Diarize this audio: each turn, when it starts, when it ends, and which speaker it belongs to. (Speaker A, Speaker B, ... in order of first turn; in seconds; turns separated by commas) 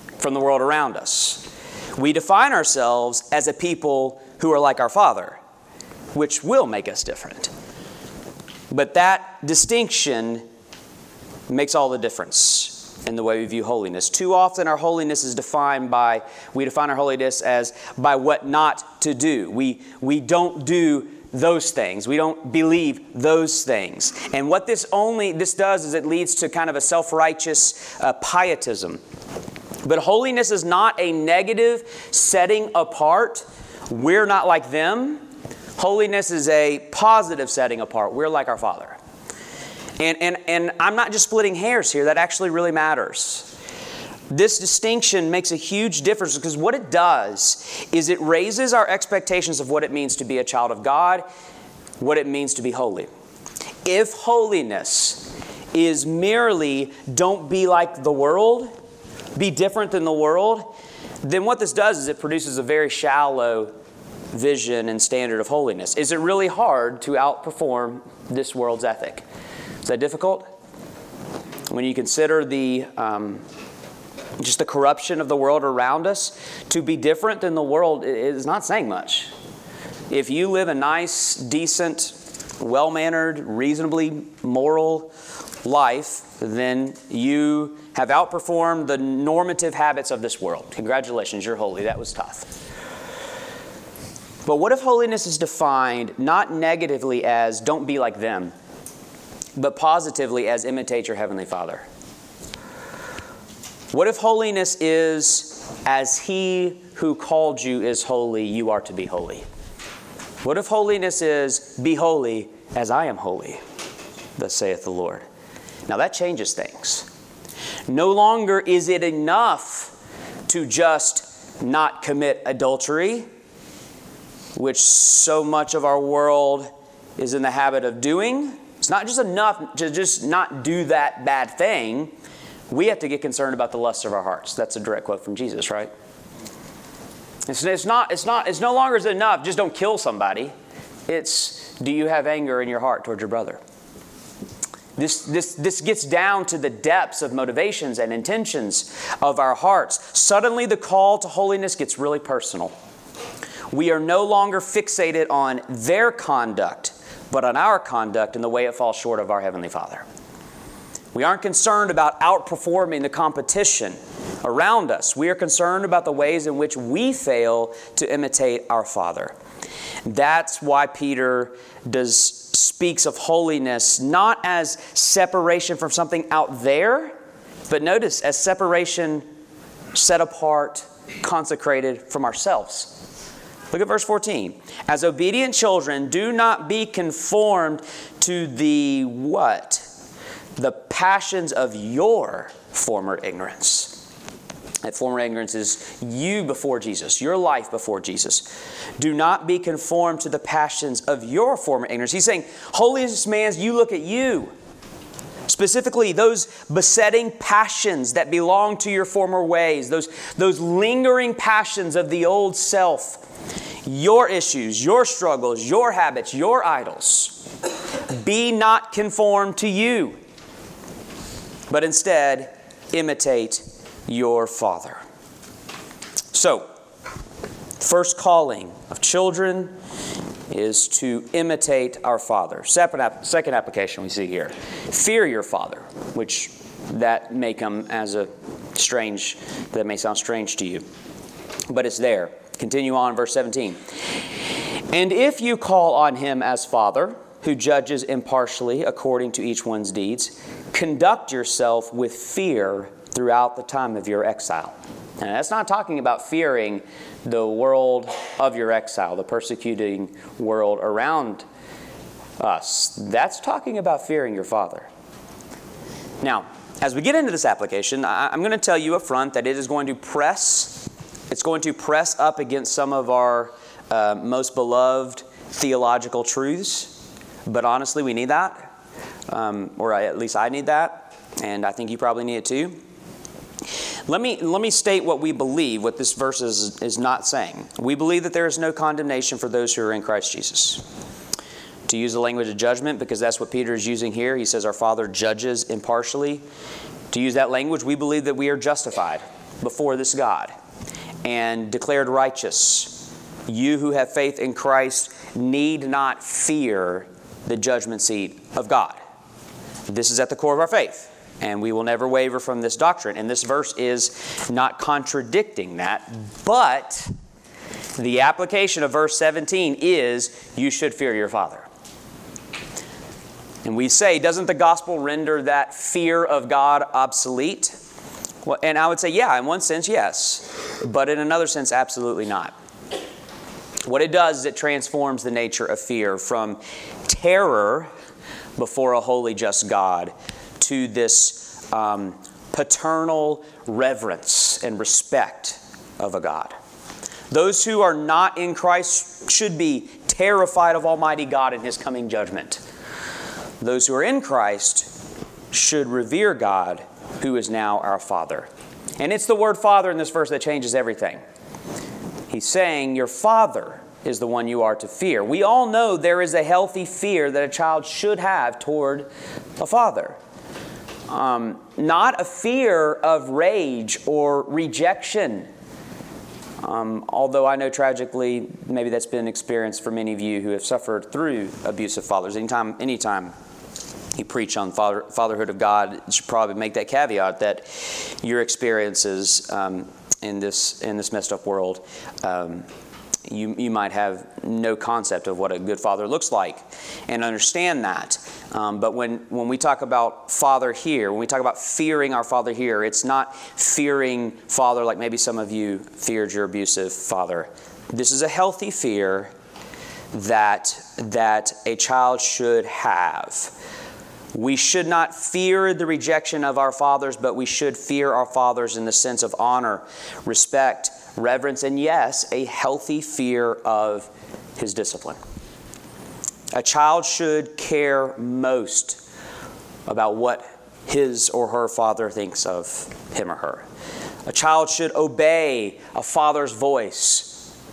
Speaker A: 0.2-5.4, Speaker A: 6.1-7.5, Speaker A: 8.7-10.4, Speaker A: 11.5-29.0, Speaker A: 29.8-35.2, Speaker A: 35.8-39.0, Speaker A: 40.0-43.5, Speaker A: 44.3-51.2, Speaker A: 52.0-53.1, Speaker A: 53.9-58.7, Speaker A: 59.4-63.7, Speaker A: 64.3-69.2, Speaker A: 69.8-70.5, Speaker A: 71.7-73.4, Speaker A: 74.4-79.3, Speaker A: 80.1-85.1, Speaker A: 85.6-92.5, Speaker A: 94.5-98.5, Speaker A: 99.6-101.9, Speaker A: 103.9-109.5, Speaker A: 110.4-113.6, Speaker A: 114.4-115.2, Speaker A: 115.9-117.1, Speaker A: 117.9-119.9, Speaker A: 120.5-123.3, Speaker A: 124.6-132.1, Speaker A: 132.7-135.9, Speaker A: 137.5-140.5, Speaker A: 141.1-143.6, Speaker A: 145.0-152.7, Speaker A: 153.7-160.1, Speaker A: 161.1-169.3, Speaker A: 170.1-177.1, Speaker A: 177.7-179.2, Speaker A: 179.9-183.0, Speaker A: 183.7-189.9, Speaker A: 190.6-194.0, Speaker A: 194.8-204.5, Speaker A: 205.5-213.2, Speaker A: 213.8-217.4, Speaker A: 218.1-220.2, Speaker A: 221.7-225.0, Speaker A: 226.3-226.7, Speaker A: 227.8-229.8, Speaker A: 230.5-240.8, Speaker A: 241.7-243.8, Speaker A: 244.9-261.4, Speaker A: 262.4-264.9, Speaker A: 266.2-276.9, Speaker A: 277.5-278.7, Speaker A: 279.3-282.8, Speaker A: 284.1-290.8, Speaker A: 291.9-296.4, Speaker A: 297.1-300.5, Speaker A: 301.2-309.0, Speaker A: 309.9-317.1, Speaker A: 318.0-321.7, Speaker A: 323.6-327.8, Speaker A: 328.4-332.5, Speaker A: 333.9-337.9, Speaker A: 338.6-346.5, Speaker A: 347.3-352.6, Speaker A: 353.6-354.9, Speaker A: 355.5-361.2, Speaker A: 362.3-370.2, Speaker A: 371.1-375.5, Speaker A: 376.6-383.3, Speaker A: 384.2-392.7, Speaker A: 393.3-409.3, Speaker A: 410.1-413.5, Speaker A: 414.3-425.2, Speaker A: 426.5-429.0, Speaker A: 429.9-433.6, Speaker A: 434.3-437.4